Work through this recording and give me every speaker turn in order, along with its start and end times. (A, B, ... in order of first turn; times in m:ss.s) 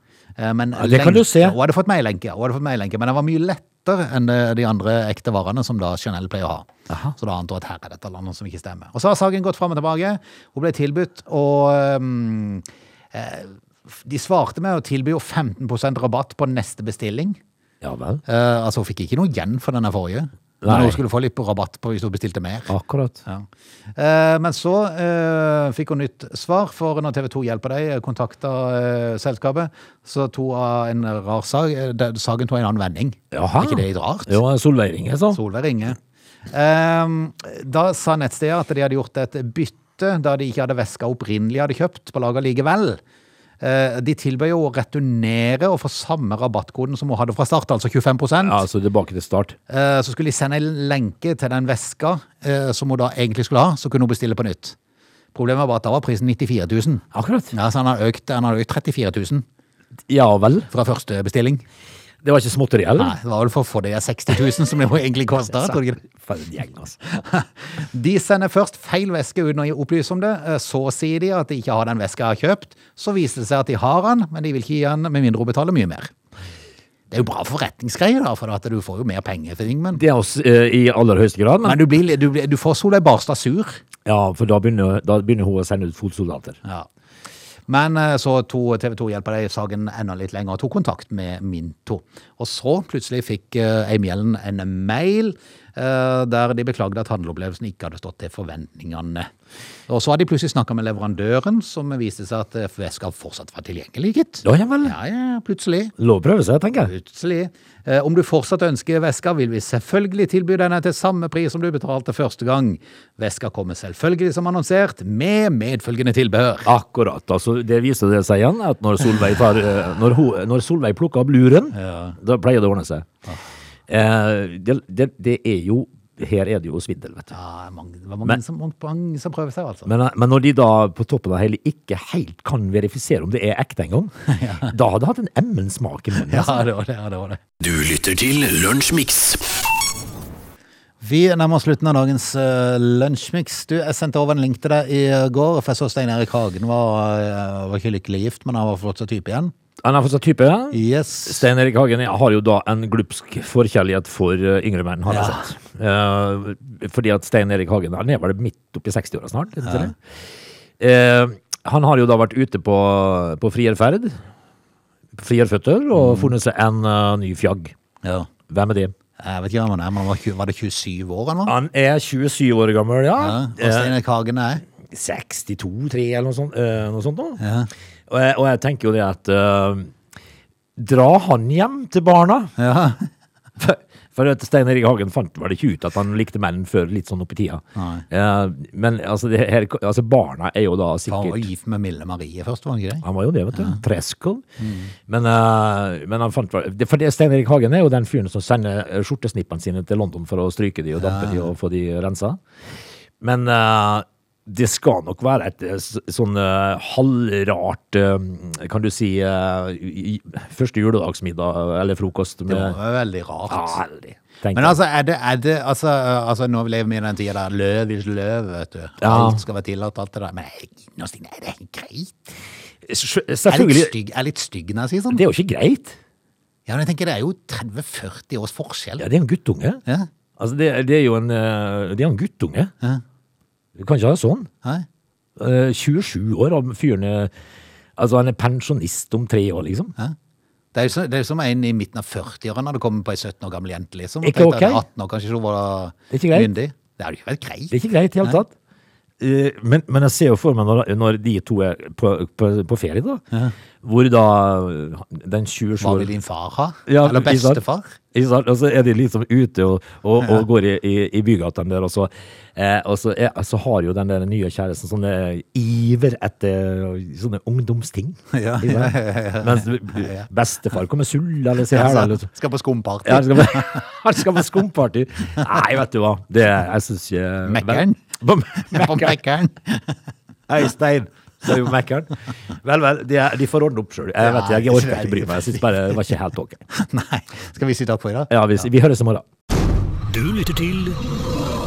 0:00.4-0:17.4 A
0:00.7-0:01.6 B
0:06.9-0:07.1 B
0:17.8-0:18.2 B
0:18.3-0:34.4 A
0:20.6-0:21.0 B
0:22.7-0:23.2 B
0:33.3-0:35.4 B
0:35.3-0:36.0 A
0:36.5-0:43.0 A
0:43.6-0:48.6 A
0:48.4-0:49.6 B
0:49.7-0:54.8 A
0:55.3-0:59.4 A
0:57.1-0:57.5 B
1:00.1-1:00.7 B
1:00.7-1:01.6 A
1:02.2-1:03.1 B
1:03.0-1:06.0 A
1:05.4-1:07.0 B
1:07.1-1:16.1 A
1:17.1-1:20.0 A
1:19.9-1:21.8 B
1:21.6-1:23.8 A
1:24.0-1:26.6 B
1:27.7-1:39.3 A
1:39.9-1:45.9 A
1:44.4-1:45.0 B
1:46.0-1:46.9 B
1:46.8-1:56.7 A
1:56.6-2:03.1 B
2:01.7-2:02.2 A
2:03.9-2:07.3 B
2:07.3-2:09.9 A
2:09.9-2:16.7 B
2:14.3-2:14.7 A
2:16.3-2:17.4 A
2:17.6-2:19.4 C
2:21.0-2:29.5 A
2:29.8-2:40.0 B
2:30.7-2:31.4 A
2:35.1-2:35.5 A
2:39.6-2:39.9 A
2:40.8-2:44.2 B
2:45.2-2:47.8 B
2:46.0-2:46.3 A
2:48.0-2:48.3 A
2:48.5-2:48.9 B
2:49.2-2:51.6 A
2:51.5-2:53.9 B
2:53.2-2:54.6 A
2:54.8-2:57.4 B
2:57.4-2:57.7 A
2:58.1-2:59.9 B
3:00.8-3:02.5 B
3:02.6-3:03.1 A
3:03.6-3:11.5 B
3:07.8-3:08.0 A
3:11.1-3:13.8 A
3:13.0-3:14.4 B
3:14.6-3:14.9 A
3:15.1-3:22.4 B
3:21.0-3:21.5 A
3:23.2-3:32.8 B
3:32.5-3:33.8 A
3:33.5-3:34.8 B
3:34.5-3:42.3 A
3:39.0-3:39.4 B
3:42.9-3:43.9 B
3:43.5-3:45.2 A
3:45.1-3:46.0 B
3:46.7-3:49.0 A
3:49.0-3:49.8 B
3:50.4-3:52.7 B
3:53.8-3:54.5 B
3:55.4-3:57.3 B
3:58.0-3:59.9 B
4:00.7-4:08.4 A
4:04.2-4:04.8 B
4:06.1-4:06.5 B
4:07.7-4:08.5 B
4:09.2-4:13.2 B
4:13.8-4:16.1 B
4:15.8-4:18.0 A
4:16.9-4:17.6 B
4:18.1-4:32.3 B
4:28.3-4:30.3 A
4:31.7-4:33.9 A
4:33.0-4:39.2 B
4:37.5-4:40.0 A
4:40.5-4:46.6 B
4:44.2-4:46.0 A
4:46.7-4:48.7 A
4:48.3-4:49.3 B
4:50.1-4:51.0 C